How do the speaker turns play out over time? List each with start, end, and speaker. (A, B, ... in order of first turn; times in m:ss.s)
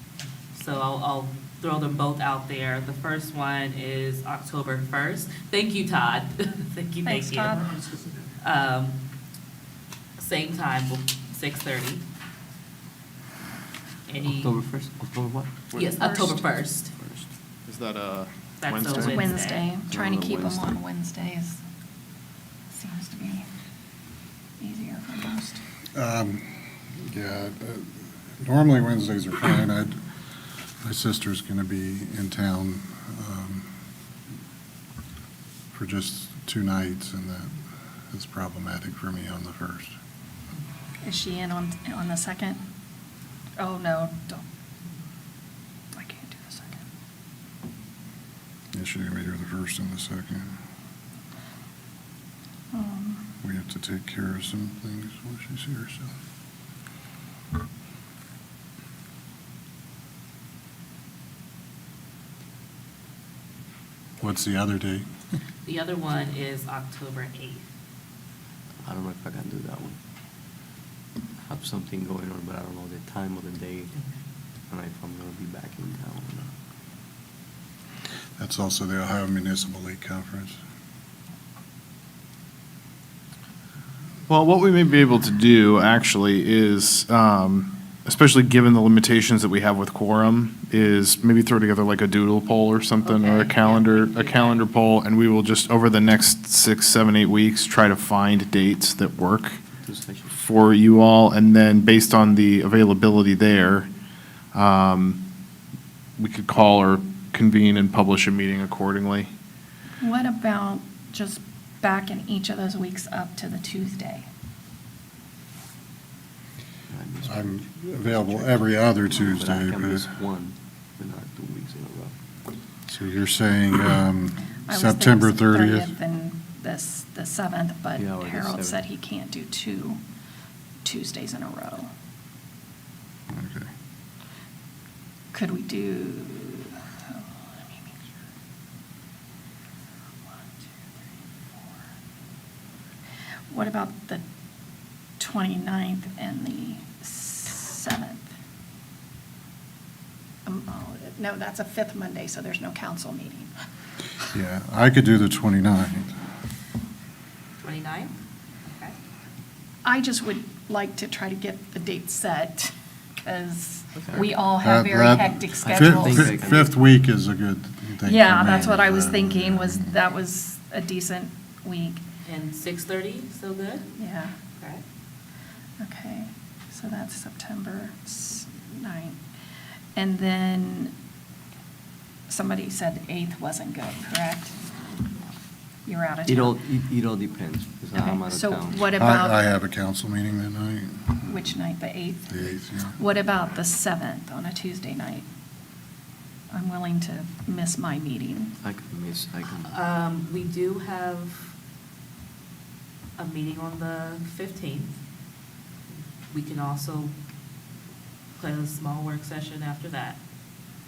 0:00.5-0:07.8 A
0:07.0-0:07.7 B
0:08.4-0:09.0 A
0:10.2-0:12.0 A
0:14.1-0:14.6 A
0:14.2-0:15.6 C
0:15.7-0:16.9 A
0:16.0-0:16.4 B
0:17.7-0:19.3 D
0:18.6-0:19.7 A
0:19.0-0:21.6 B
0:19.9-0:20.8 C
0:22.7-0:23.4 B
0:24.6-0:25.6 B
0:25.9-0:27.9 E
0:28.4-0:30.0 E
0:30.8-0:33.7 E
0:35.7-0:37.6 E
0:38.1-0:39.9 E
0:41.0-0:42.6 B
0:43.6-0:44.4 B
0:45.9-0:46.8 B
0:48.7-0:50.5 E
0:52.7-0:53.2 B
0:53.4-0:56.1 E
1:04.2-1:05.1 E
1:05.6-1:07.7 A
1:08.8-1:10.0 C
1:11.4-1:13.9 C
1:14.7-1:16.5 C
1:18.4-1:20.6 E
1:24.3-1:39.6 D
1:33.0-1:34.7 A
1:39.8-1:40.4 C
1:40.4-1:43.9 D
1:44.5-1:45.2 D
1:46.2-1:49.3 D
1:50.0-1:54.3 B
1:56.9-2:02.2 C
1:57.2-2:00.1 E
2:02.9-2:06.0 E
2:04.7-2:10.0 B
2:08.0-2:08.8 C
2:10.8-2:11.9 B
2:13.3-2:13.7 E
2:15.3-2:18.1 B
2:20.3-2:21.0 B
2:23.5-2:24.2 B
2:25.2-2:28.3 B
2:30.4-2:33.5 B
2:34.3-2:36.1 E
2:37.6-2:38.2 A
2:39.8-2:42.7 B
2:43.2-2:46.6 B
2:44.0-2:44.4 C
2:44.6-2:50.0 E
2:45.6-2:46.8 C
2:48.0-2:52.0 B
2:52.2-2:53.9 A
2:54.0-2:54.3 B
2:54.6-2:54.8 A
2:55.8-2:59.2 B
3:00.0-3:00.9 B
3:02.3-3:04.6 B
3:05.9-3:06.6 B
3:06.3-3:09.0 C
3:07.9-3:09.4 B
3:09.0-3:11.4 E
3:11.3-3:15.2 B
3:12.3-3:13.0 E
3:16.5-3:18.6 B
3:18.6-3:19.8 C
3:19.6-3:21.5 A
3:23.2-3:24.9 A
3:26.3-3:27.2 A
3:28.4-3:30.2 A